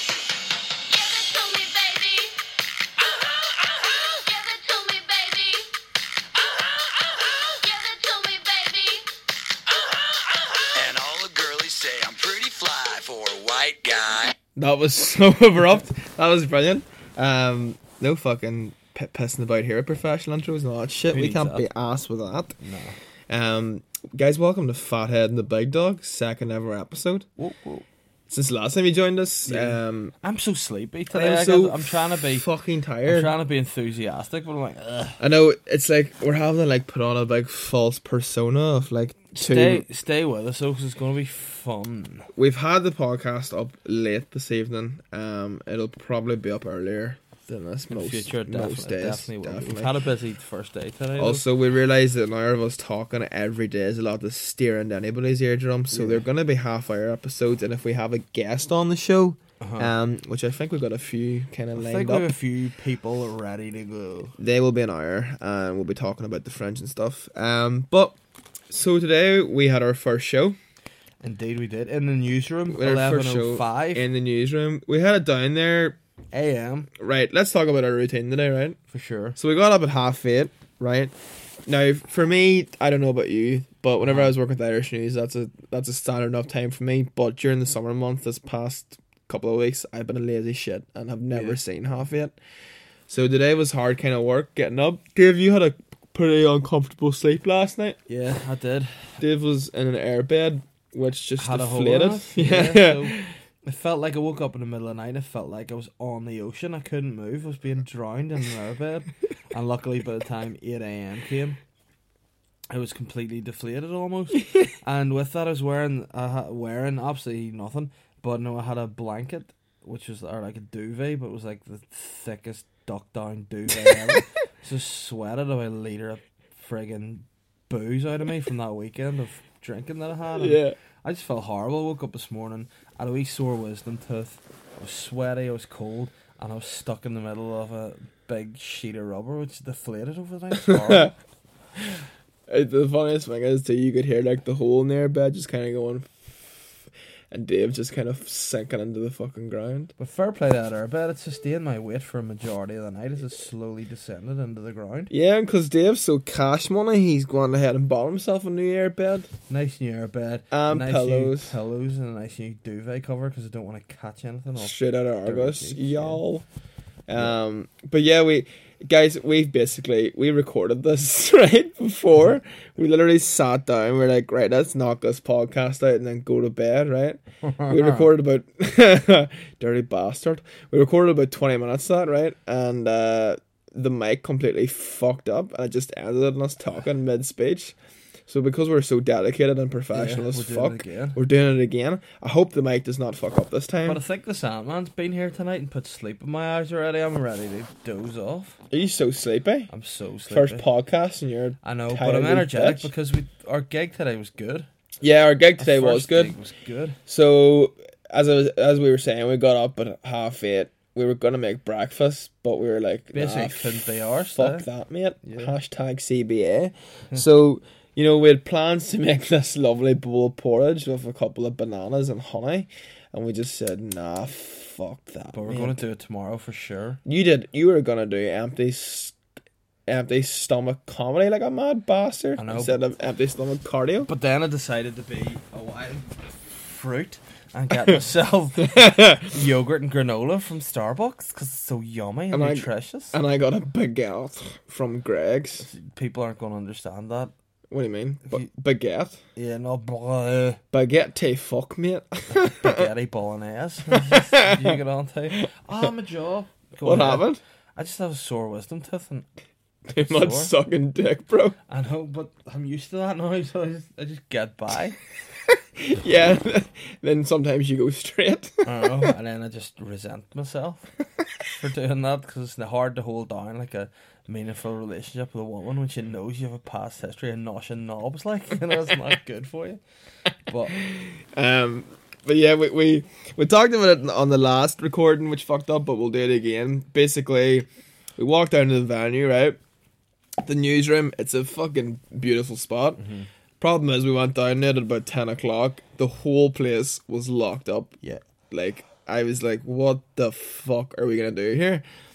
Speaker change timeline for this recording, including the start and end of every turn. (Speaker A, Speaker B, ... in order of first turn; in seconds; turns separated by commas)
Speaker A: 0.9-2.4, Speaker A: 3.0-5.7, Speaker A: 6.3-9.1, Speaker A: 9.7-14.3, Speaker B: 14.6-22.6, Speaker C: 21.1-21.6, Speaker C: 22.6-22.9, Speaker B: 23.3-27.3, Speaker C: 27.4-27.9, Speaker B: 28.3-30.1, Speaker C: 29.4-32.5, Speaker B: 31.1-33.3, Speaker C: 33.0-35.2, Speaker B: 35.2-39.9, Speaker C: 39.3-42.3, Speaker B: 42.3-49.9, Speaker C: 47.9-51.4, Speaker B: 51.2-62.3, Speaker C: 55.9-56.2, Speaker C: 59.6-59.9, Speaker C: 61.7-64.3, Speaker B: 64.4-68.2, Speaker B: 68.7-70.6, Speaker C: 71.2-74.0, Speaker B: 72.7-76.0, Speaker C: 76.3-76.9, Speaker B: 77.0-78.8, Speaker C: 78.9-79.4, Speaker B: 79.4-81.1, Speaker B: 81.7-92.3, Speaker C: 84.0-84.3, Speaker C: 91.3-91.6, Speaker B: 93.1-98.0, Speaker C: 98.1-99.2, Speaker B: 99.2-103.3, Speaker C: 101.4-111.6, Speaker C: 112.7-141.1, Speaker B: 123.9-124.2, Speaker B: 130.3-130.8, Speaker B: 140.6-141.1, Speaker B: 141.8-146.7, Speaker B: 147.3-149.9, Speaker C: 150.0-155.1, Speaker B: 155.1-159.3, Speaker C: 159.5-166.2, Speaker B: 160.5-161.5, Speaker B: 164.6-166.4, Speaker B: 167.1-187.8, Speaker C: 177.4-178.1, Speaker B: 188.3-194.0, Speaker C: 189.9-191.2, Speaker C: 193.8-198.6, Speaker B: 198.7-199.7, Speaker C: 199.7-200.6, Speaker B: 200.3-202.9, Speaker C: 201.6-204.7, Speaker B: 205.0-206.4, Speaker C: 205.6-207.0, Speaker B: 207.1-225.8, Speaker C: 213.1-214.7, Speaker C: 215.2-215.5, Speaker C: 225.3-227.0, Speaker B: 227.0-229.2, Speaker B: 229.9-234.1, Speaker C: 232.3-232.8, Speaker C: 234.1-243.1, Speaker B: 238.6-239.4, Speaker B: 242.3-245.7, Speaker C: 245.6-247.3, Speaker B: 247.7-249.2, Speaker C: 249.3-250.6, Speaker B: 250.7-252.9, Speaker C: 252.3-259.3, Speaker B: 253.9-254.8, Speaker B: 255.3-255.9, Speaker B: 256.8-257.4, Speaker B: 259.9-261.6, Speaker C: 259.9-260.5, Speaker C: 261.7-265.0, Speaker B: 265.5-269.1, Speaker C: 268.6-270.9, Speaker C: 271.5-279.8, Speaker C: 280.5-280.8, Speaker B: 280.9-289.6, Speaker B: 290.4-293.0, Speaker C: 293.0-293.3, Speaker B: 293.6-298.0, Speaker B: 298.5-301.8